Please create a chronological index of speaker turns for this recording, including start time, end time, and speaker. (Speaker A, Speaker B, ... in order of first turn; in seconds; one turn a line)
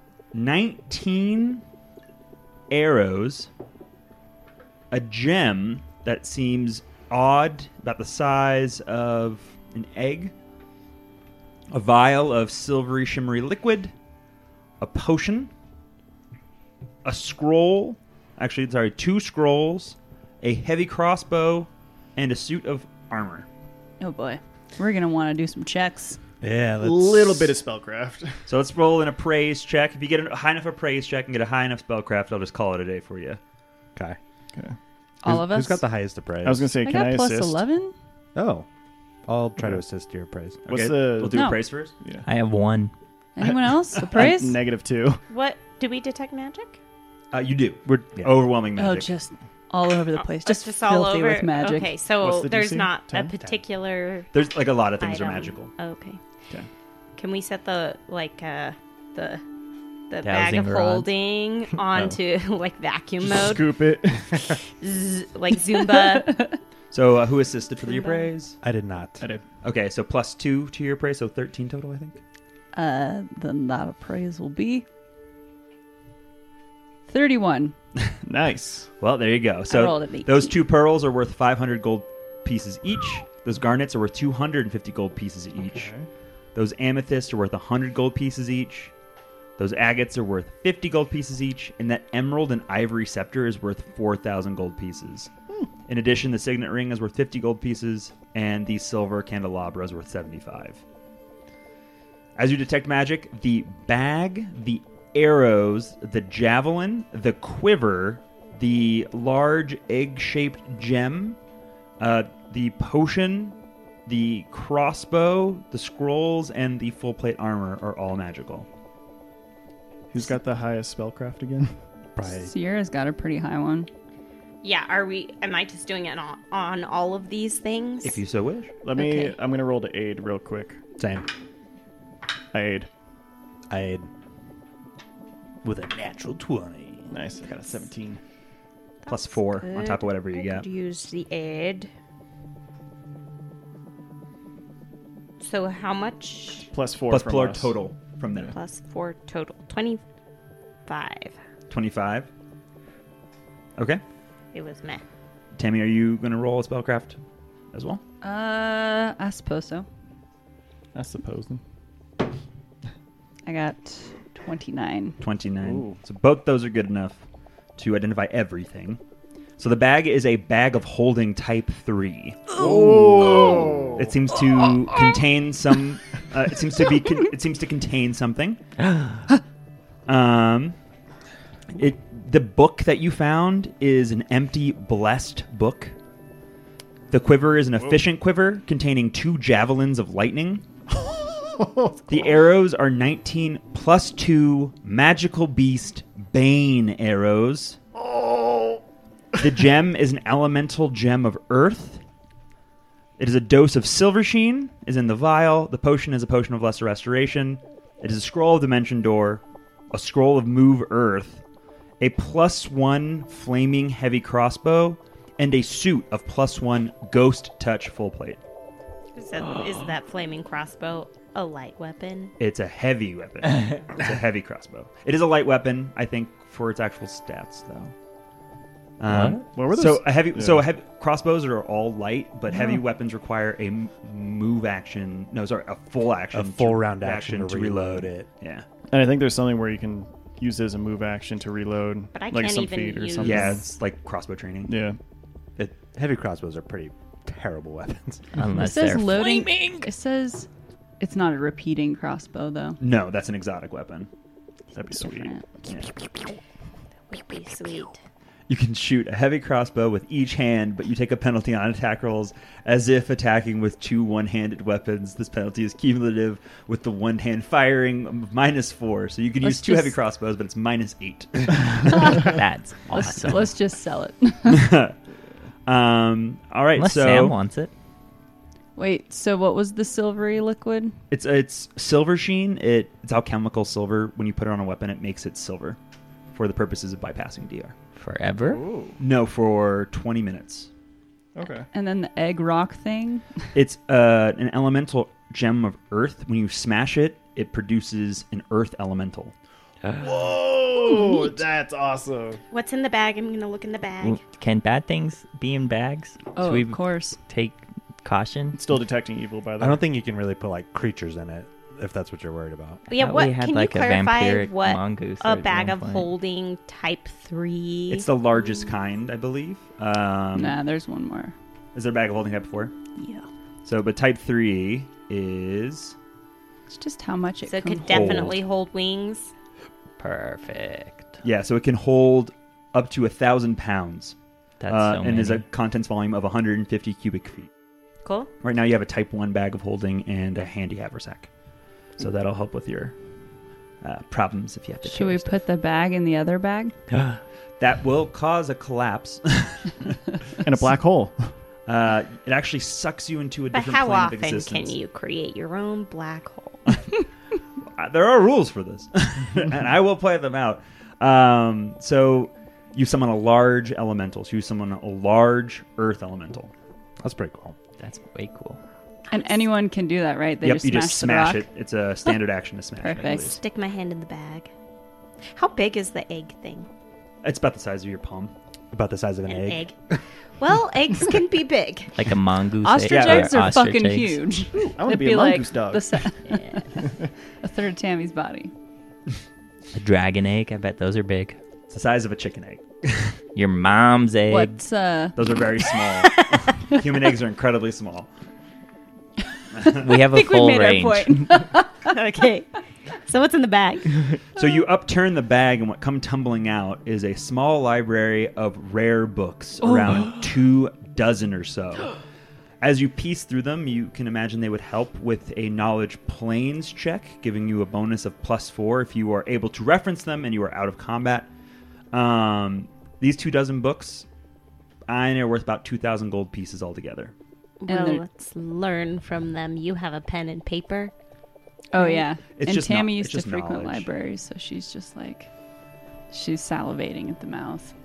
Speaker A: 0.3-1.6
Speaker A: 2.7-3.5
Speaker A: 4.9-10.3
Speaker A: 11.7-13.9
Speaker A: 14.8-15.5
Speaker A: 17.0-23.5
Speaker B: 24.0-26.2
Speaker C: 26.4-27.6
Speaker D: 26.8-28.5
Speaker A: 28.5-33.4
Speaker B: 35.2-35.8
Speaker C: 35.2-36.7
Speaker D: 36.4-37.6
Speaker B: 36.8-37.9
Speaker C: 38.3-38.7
Speaker C: 39.3-40.6
Speaker A: 40.6-41.9
Speaker D: 40.6-42.3
Speaker B: 41.3-41.6
Speaker E: 42.2-42.9
Speaker B: 43.4-44.6
Speaker D: 43.4-45.2
Speaker F: 45.3-46.8
Speaker A: 47.3-49.1
Speaker C: 47.9-48.5
Speaker B: 48.8-51.9
Speaker F: 50.4-54.3
Speaker D: 52.2-53.4
Speaker A: 54.3-55.7
Speaker F: 55.0-56.2
Speaker F: 57.2-59.4
Speaker F: 60.1-63.8
Speaker E: 60.2-61.1
Speaker D: 63.2-64.6
Speaker F: 64.6-66.5
Speaker A: 66.9-68.6
Speaker F: 67.8-68.3
Speaker C: 68.6-69.2
Speaker A: 69.6-72.2
Speaker B: 72.7-74.8
Speaker B: 77.1-77.7
Speaker D: 78.2-78.9
Speaker A: 79.0-85.9
Speaker B: 79.7-80.6
Speaker D: 85.7-86.0
Speaker A: 86.5-88.9
Speaker A: 89.6-95.3
Speaker A: 95.9-100.8
Speaker A: 102.3-111.4
Speaker A: 112.0-113.5
Speaker A: 114.1-118.7
Speaker D: 120.1-121.8
Speaker C: 122.2-122.5
Speaker B: 122.3-123.9
Speaker F: 124.6-128.2
Speaker A: 128.0-128.7
Speaker D: 128.8-130.8
Speaker F: 128.9-129.3
Speaker C: 131.0-131.2
Speaker D: 132.5-132.9
Speaker C: 133.7-134.1
Speaker C: 135.6-137.1
Speaker D: 137.1-138.2
Speaker F: 139.0-141.9
Speaker A: 139.1-140.7
Speaker F: 145.4-146.7
Speaker D: 146.7-147.8
Speaker A: 147.1-148.5
Speaker F: 148.5-150.0
Speaker F: 150.8-151.3
Speaker A: 151.7-152.3
Speaker F: 154.5-155.0
Speaker A: 155.6-157.2
Speaker A: 157.7-158.0
Speaker B: 158.2-159.9
Speaker D: 160.9-161.6
Speaker B: 163.4-165.2
Speaker A: 165.2-167.2
Speaker D: 165.6-165.9
Speaker A: 167.8-169.0
Speaker A: 169.6-178.6
Speaker D: 172.6-174.1
Speaker C: 173.3-173.7
Speaker A: 180.1-180.8
Speaker A: 181.7-185.9
Speaker A: 187.1-190.6
Speaker D: 191.4-192.1
Speaker A: 192.1-197.8
Speaker D: 198.1-198.8
Speaker A: 199.4-202.0
Speaker A: 203.2-209.4
Speaker A: 209.9-211.4
Speaker A: 212.0-218.4
Speaker F: 219.2-222.3
Speaker A: 222.4-227.9
Speaker A: 229.0-238.7
Speaker E: 229.1-229.4
Speaker D: 229.4-230.7
Speaker C: 236.3-238.3
Speaker D: 238.9-243.7
Speaker F: 242.1-243.6
Speaker A: 243.2-244.8
Speaker D: 244.7-245.0
Speaker C: 245.6-248.2
Speaker E: 248.3-249.8
Speaker B: 248.6-250.5
Speaker B: 251.0-252.8
Speaker A: 252.8-254.1
Speaker D: 254.7-255.3
Speaker B: 254.9-255.6
Speaker A: 255.7-255.9
Speaker F: 257.1-258.0
Speaker A: 258.5-272.3
Speaker B: 269.4-270.0
Speaker B: 271.9-272.2
Speaker E: 271.9-273.5
Speaker B: 272.9-274.7
Speaker A: 274.5-274.9
Speaker A: 275.7-277.4
Speaker E: 276.8-277.7
Speaker B: 278.8-280.9
Speaker A: 281.1-285.8
Speaker A: 286.3-287.7
Speaker E: 287.9-288.6
Speaker D: 288.4-289.0
Speaker A: 289.0-290.7
Speaker D: 291.3-291.7
Speaker B: 291.7-293.4
Speaker A: 293.5-299.3
Speaker E: 299.8-300.1
Speaker D: 299.9-302.4
Speaker F: 302.5-304.2
Speaker E: 304.0-308.6
Speaker B: 306.4-307.2
Speaker D: 308.5-309.8
Speaker C: 309.6-312.8
Speaker F: 312.9-318.1
Speaker E: 312.9-316.1
Speaker A: 317.9-320.6
Speaker B: 320.3-321.3
Speaker A: 321.7-322.7
Speaker B: 323.0-323.3
Speaker A: 323.6-325.9
Speaker B: 326.7-328.3
Speaker F: 327.4-329.3
Speaker A: 327.8-328.4
Speaker E: 330.0-331.1
Speaker A: 331.2-334.1
Speaker E: 334.6-335.4
Speaker A: 334.7-337.5
Speaker F: 338.0-338.3
Speaker A: 338.4-341.3
Speaker A: 342.0-342.9
Speaker A: 343.8-345.3
Speaker B: 344.8-346.7
Speaker E: 346.9-347.2
Speaker A: 347.6-350.0
Speaker D: 350.4-351.3
Speaker A: 351.7-354.8
Speaker F: 353.5-356.8
Speaker A: 357.7-366.5
Speaker C: 367.0-367.6
Speaker E: 367.8-368.6
Speaker B: 369.1-371.5
Speaker A: 370.4-373.4
Speaker B: 372.8-373.4
Speaker F: 373.4-374.5
Speaker F: 375.3-376.7
Speaker A: 377.2-378.3
Speaker C: 378.7-379.7
Speaker F: 379.3-379.7
Speaker F: 380.4-382.0
Speaker E: 381.9-384.3
Speaker B: 382.6-386.8
Speaker A: 382.9-383.4
Speaker D: 384.5-386.1
Speaker B: 387.4-388.5
Speaker E: 389.7-391.4
Speaker A: 391.7-393.2
Speaker E: 393.3-394.6
Speaker B: 394.3-395.2
Speaker A: 395.2-398.1
Speaker A: 399.6-399.9
Speaker E: 399.7-401.4
Speaker B: 400.1-401.7
Speaker F: 401.8-404.0
Speaker A: 404.3-411.9
Speaker A: 412.6-421.3
Speaker A: 421.9-424.1
Speaker A: 424.9-427.1
Speaker F: 427.6-430.9
Speaker B: 427.7-428.0
Speaker B: 431.7-435.3
Speaker F: 431.7-432.1
Speaker A: 432.4-433.9
Speaker B: 436.1-437.7